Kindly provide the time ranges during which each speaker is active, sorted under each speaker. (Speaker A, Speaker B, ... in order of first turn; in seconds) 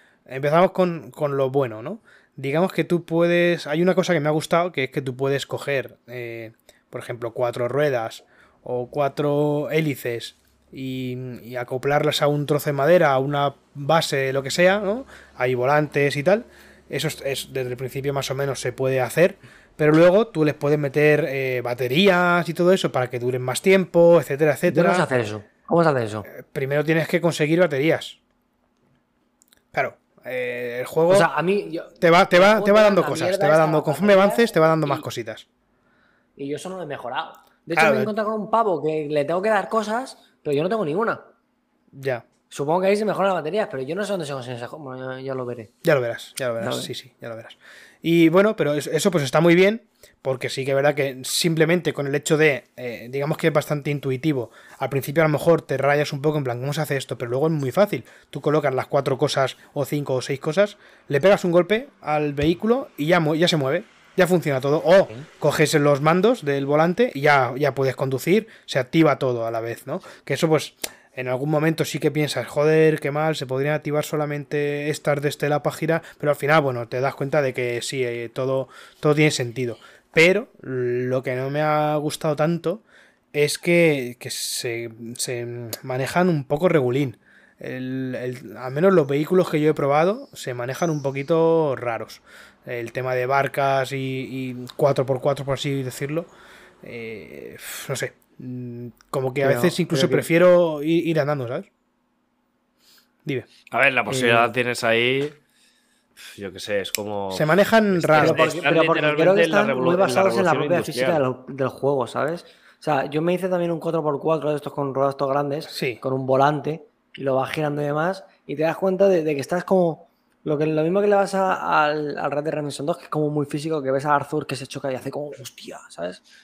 Speaker A: 0.3-25.0, 26.3-28.2, 29.7-31.3, 32.0-35.5, 37.8-38.1, 41.9-42.2, 45.8-96.3, 96.8-101.7, 107.3-108.4, 115.7-116.0
Speaker B: 24.7-26.3, 31.1-35.0, 36.4-41.3, 42.5-45.7, 46.6-46.9, 99.4-100.3, 104.1-104.5, 108.2-126.2
Speaker C: 103.7-105.3, 106.2-111.2